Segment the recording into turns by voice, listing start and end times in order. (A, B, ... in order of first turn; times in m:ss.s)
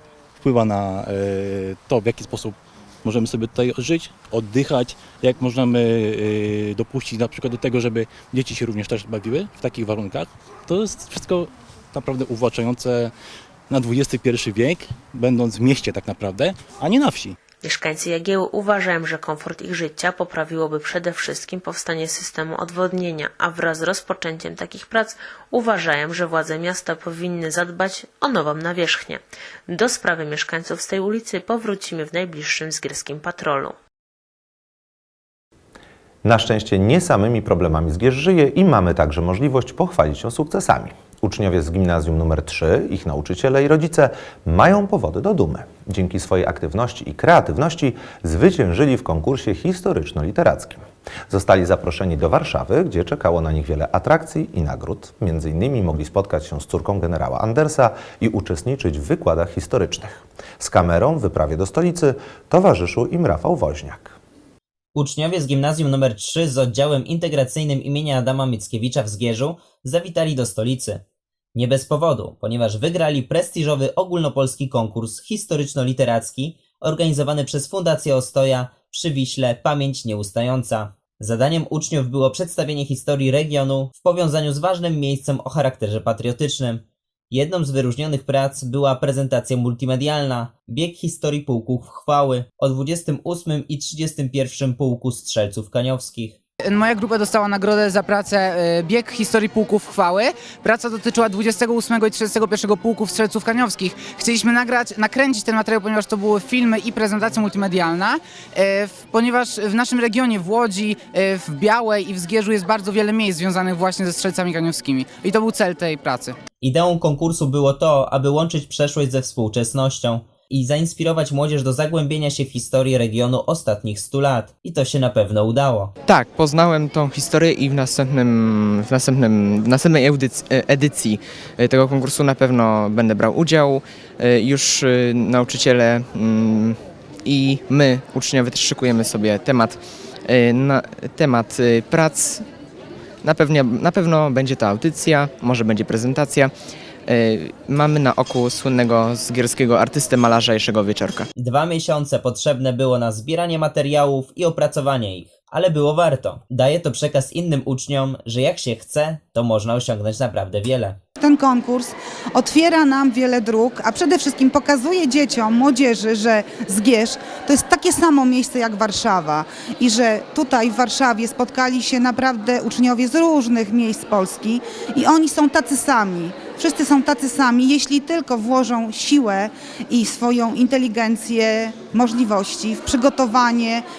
0:00.4-0:13.1 A
0:13.7-0:17.4 A
0:17.6-0:33.7 B
0:36.2-1:04.2 C
1:04.9-1:11.0 D
1:11.5-1:36.4 D
1:36.7-1:56.4 E
1:56.6-2:05.9 D
2:06.0-2:22.5 F
2:23.2-2:26.5 F
2:27.1-2:31.3 F
2:31.4-2:41.0 D
2:41.2-3:03.8 G